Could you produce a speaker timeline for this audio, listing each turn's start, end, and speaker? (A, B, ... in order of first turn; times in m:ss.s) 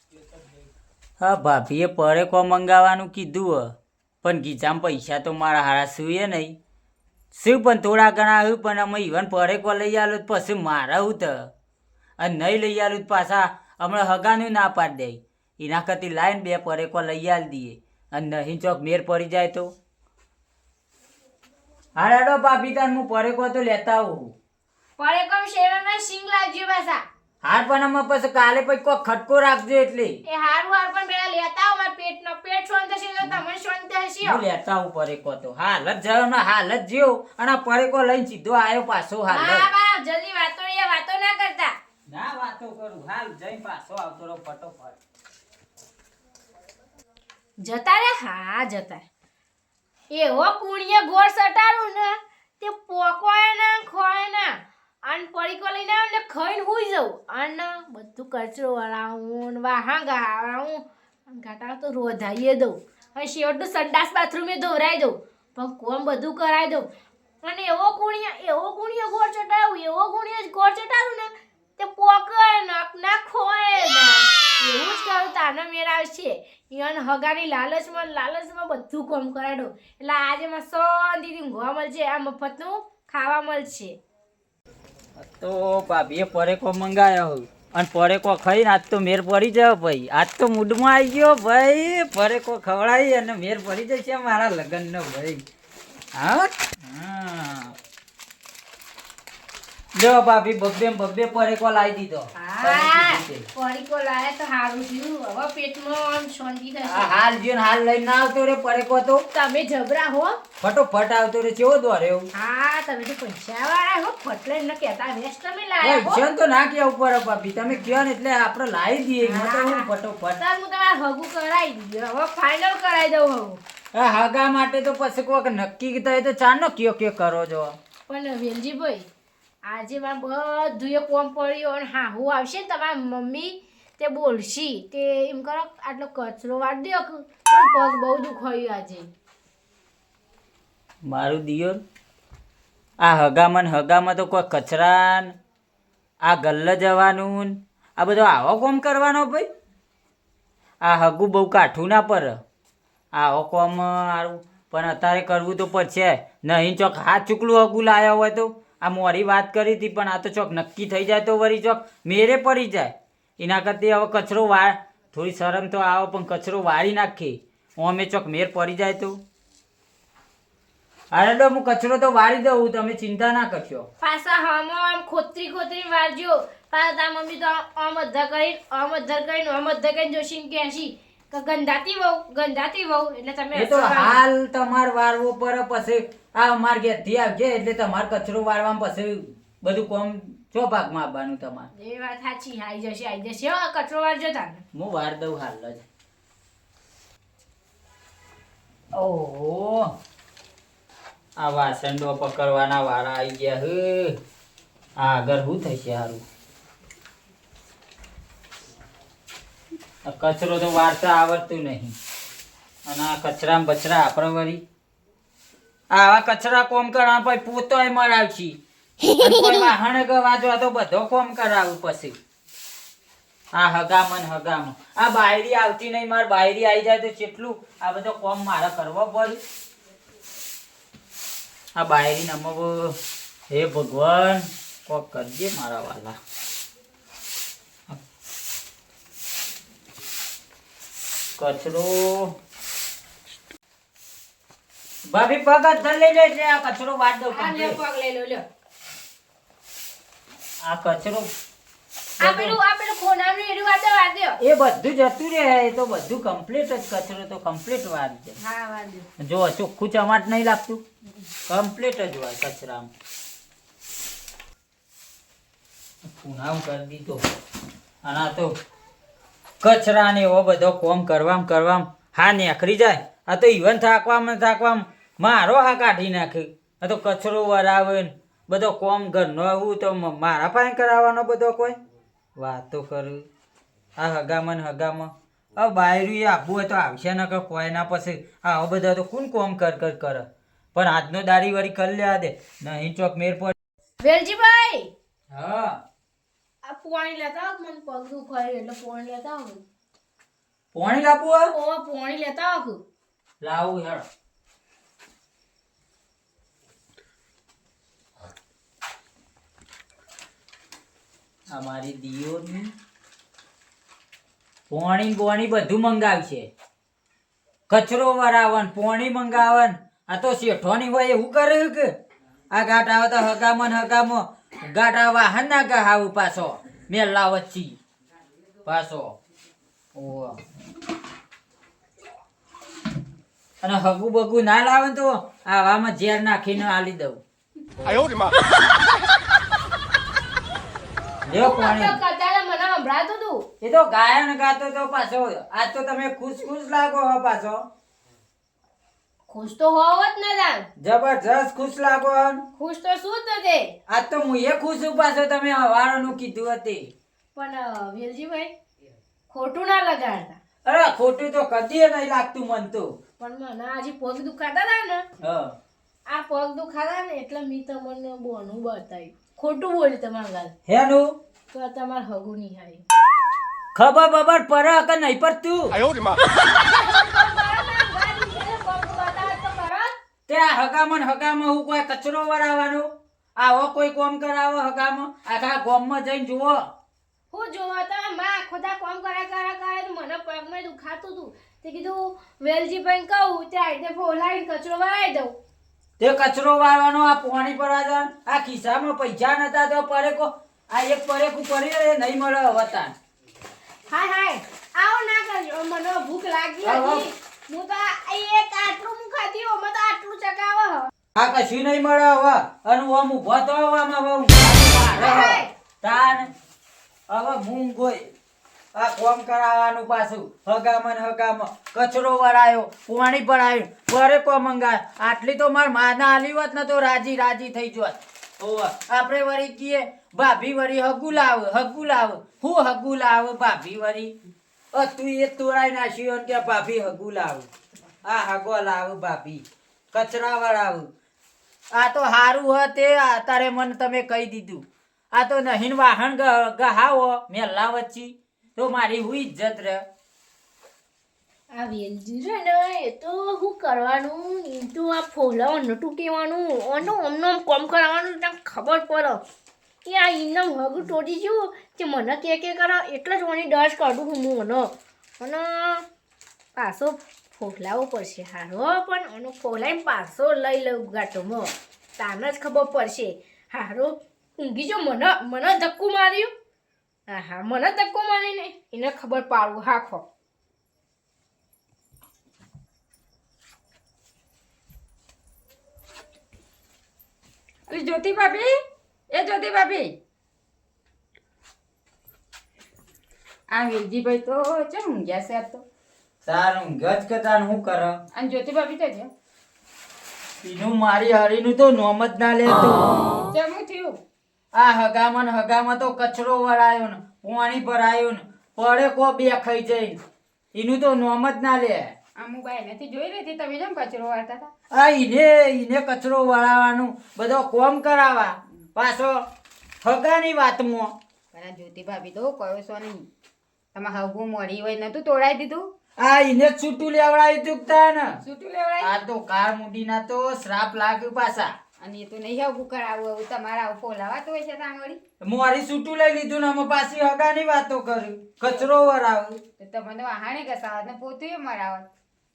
0:01.2-0:06.6 A
0:07.3-0:11.5 A
0:12.2-0:19.7 A
0:22.0-0:24.3 A
0:25.0-0:27.0 B
0:27.4-0:30.2 A
0:30.3-0:34.4 B
0:34.3-0:39.7 A
0:39.3-0:41.8 B
0:42.1-0:45.0 A
0:47.6-0:49.0 B
0:50.1-1:06.9 B
1:07.4-1:24.0 B
1:25.2-1:35.4 A
1:36.2-1:37.7 A
1:40.0-1:43.4 A
1:42.4-1:47.1 B
1:46.9-1:49.2 A
1:49.3-1:50.4 B
1:50.6-1:52.3 A
1:52.3-1:56.2 B
1:55.8-2:00.4 A
1:59.2-1:59.9 B
2:00.4-2:03.6 B
2:04.0-2:07.8 A
2:08.1-2:09.1 B
2:09.6-2:19.1 B
2:21.0-2:21.8 A
2:23.0-2:25.3 A
2:26.2-2:29.5 A
2:30.8-2:32.4 A
2:33.1-2:49.2 A
2:51.1-2:53.9 A
2:54.0-3:04.2 B
3:03.6-3:11.7 A
3:11.8-3:14.6 B
3:14.8-3:15.8 A
3:19.0-3:19.9 A
3:21.4-3:24.2 A
3:25.0-3:26.2 A
3:30.0-3:32.0 A
3:32.9-3:34.6 A
3:35.9-3:38.6 A
3:39.2-3:42.2 A
3:43.5-3:49.4 A
3:51.8-3:53.0 A
3:53.5-3:56.2 A
4:01.4-4:02.3 A
4:05.1-4:07.8 A
4:07.3-4:08.4 B
4:10.6-4:11.3 A
4:12.2-4:14.4 B
4:14.4-4:18.4 A
4:18.4-4:19.1 B
4:19.2-4:20.8 A
4:21.5-4:22.9 A
4:26.0-4:27.2 A
4:28.0-4:28.5 A
4:29.6-4:41.8 A
4:42.4-4:43.3 A
4:44.0-4:53.5 A
4:54.0-4:54.9 B
4:55.3-4:55.8 A
4:56.6-4:59.6 B
5:00.7-5:01.5 A
5:01.5-5:02.8 B
5:03.4-5:04.0 A
5:11.5-5:12.7 A
5:14.7-5:16.5 A
5:17.7-5:21.9 A
5:22.5-5:27.8 A
5:28.6-5:29.2 A
5:30.0-5:30.4 A
5:33.6-5:37.2 A
5:41.3-5:42.0 A
5:41.3-5:43.5 B
5:43.6-5:47.6 A
5:49.3-5:50.7 B
5:50.8-5:52.4 A
5:52.6-5:53.7 B
5:53.9-5:56.9 A
5:57.4-5:58.5 B
5:59.3-6:00.4 B
6:00.7-6:02.9 A
6:03.2-6:05.0 B
6:05.2-6:05.5 A
6:06.1-6:10.5 B
6:10.7-6:11.2 A
6:11.5-6:12.8 B
6:13.8-6:15.8 A
6:16.2-6:19.9 B
6:20.3-6:26.6 A
6:27.3-6:35.4 B
6:36.0-6:42.9 A
6:43.9-6:50.9 B
6:46.7-6:47.0 A
6:51.2-6:56.3 A
6:54.9-6:55.5 B
6:57.1-6:58.1 A
6:58.8-7:14.1 A
7:14.7-7:17.5 A
7:18.1-7:20.9 A
7:21.7-7:29.8 A
7:31.5-7:39.2 B
7:39.8-7:45.8 B
7:46.6-7:56.3 B
7:57.1-8:00.0 B
8:07.7-8:08.5 C
8:09.1-8:09.9 C
8:13.5-8:15.6 C
8:16.3-8:18.0 A
8:18.2-8:19.1 C
8:20.4-8:23.1 A
8:23.3-8:24.0 C
8:24.6-8:30.0 A
8:30.6-8:31.9 A
8:32.2-8:34.5 C
8:34.7-8:39.2 A
8:39.8-8:40.9 A
8:41.3-8:43.1 C
8:43.8-8:45.7 C
8:46.0-8:48.2 A
8:48.2-8:49.0 C
8:48.8-8:51.5 A
8:51.8-8:55.0 C
8:55.2-8:59.4 A
8:59.6-9:01.9 C